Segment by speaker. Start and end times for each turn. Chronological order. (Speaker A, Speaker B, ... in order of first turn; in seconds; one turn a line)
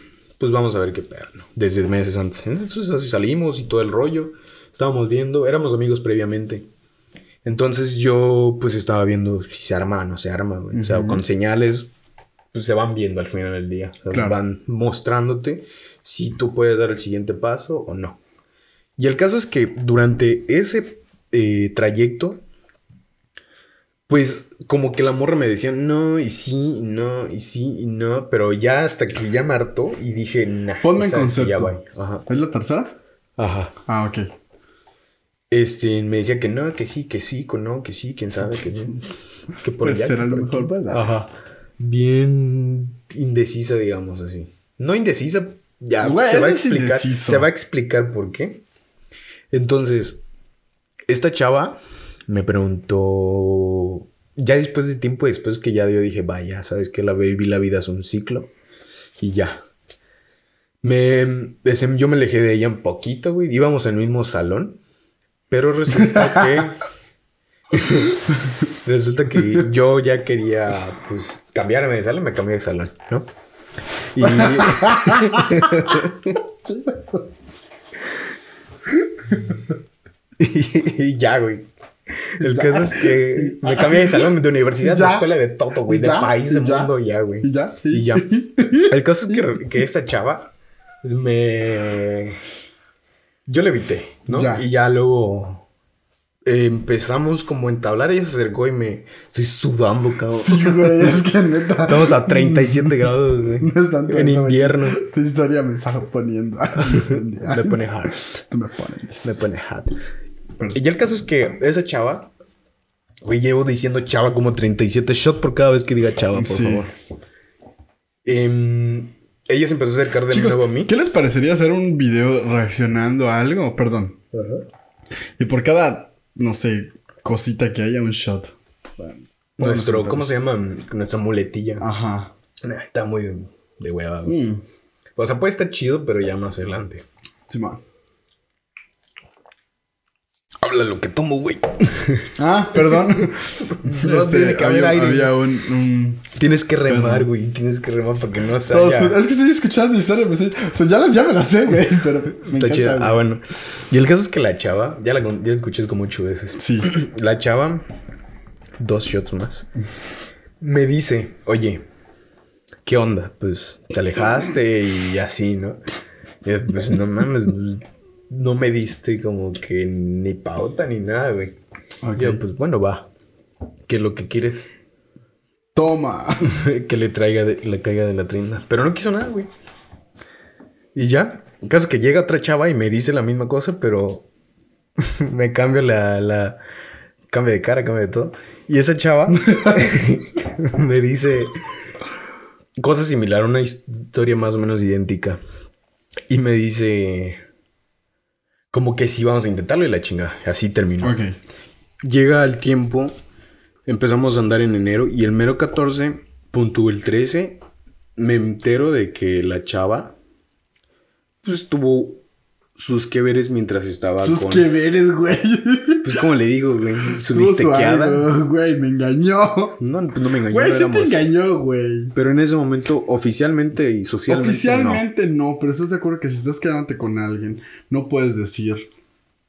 Speaker A: 0.4-6.7
Speaker A: 7.4-11.9
Speaker B: 10.7-11.2
Speaker A: 12.5-18.2
Speaker B: 14.1-14.4
Speaker A: 19.0-22.4
Speaker A: 24.1-32.2
Speaker B: 30.8-32.9
Speaker A: 33.4-33.7
Speaker B: 33.9-34.3
Speaker A: 35.5-48.6
Speaker B: 38.6-38.9
Speaker B: 39.8-41.1
Speaker B: 46.0-47.5
Speaker A: 49.5-50.2
Speaker A: 51.1-58.5
Speaker A: 59.2-59.6
Speaker A: 60.8-64.8
Speaker A: 65.5-66.8
Speaker B: 66.1-66.6
Speaker A: 67.7-68.2
Speaker A: 68.8-73.3
Speaker A: 73.9-76.3
Speaker B: 74.2-77.3
Speaker B: 79.0-79.6
Speaker A: 80.4-81.7
Speaker A: 82.2-88.2
Speaker B: 82.4-85.3
Speaker B: 85.8-89.6
Speaker A: 88.8-90.5
Speaker A: 91.0-92.4
Speaker A: 93.5-95.6
Speaker B: 94.3-94.6
Speaker A: 96.5-101.2
Speaker B: 100.3-103.0
Speaker A: 101.8-105.0
Speaker B: 103.6-109.4
Speaker A: 106.8-108.3
Speaker A: 109.2-109.9
Speaker A: 110.7-112.3
Speaker A: 113.2-116.9
Speaker B: 116.3-116.9
Speaker A: 118.2-120.9
Speaker B: 120.3-124.2
Speaker A: 124.3-124.6
Speaker B: 125.4-128.5
Speaker A: 129.0-131.8
Speaker B: 129.6-130.3
Speaker B: 131.8-132.3
Speaker A: 132.6-134.4
Speaker B: 134.2-134.6
Speaker A: 135.2-137.0
Speaker B: 137.5-137.8
Speaker A: 140.6-143.2
Speaker B: 142.3-146.3
Speaker A: 143.8-145.3
Speaker A: 146.3-149.2
Speaker B: 146.9-147.3
Speaker B: 148.7-153.2
Speaker A: 152.4-157.8
Speaker B: 156.6-156.9
Speaker A: 158.8-159.7
Speaker A: 160.6-161.8
Speaker A: 162.8-165.8
Speaker A: 166.4-171.6
Speaker B: 172.0-172.4
Speaker A: 172.2-173.1
Speaker A: 173.9-174.7
Speaker B: 175.7-176.6
Speaker A: 176.4-179.5
Speaker A: 180.9-184.2
Speaker A: 185.0-186.6
Speaker A: 187.3-191.6
Speaker B: 189.4-190.1
Speaker A: 192.8-195.4
Speaker A: 196.3-197.4
Speaker A: 198.7-201.2
Speaker B: 201.0-201.3
Speaker A: 202.0-203.1
Speaker A: 203.9-207.6
Speaker A: 208.2-210.1
Speaker A: 211.4-212.2
Speaker A: 212.8-214.7
Speaker B: 214.2-216.2
Speaker A: 216.0-218.3
Speaker B: 217.0-219.8
Speaker A: 219.8-221.2
Speaker B: 220.5-222.1
Speaker A: 222.1-225.0
Speaker B: 224.3-228.9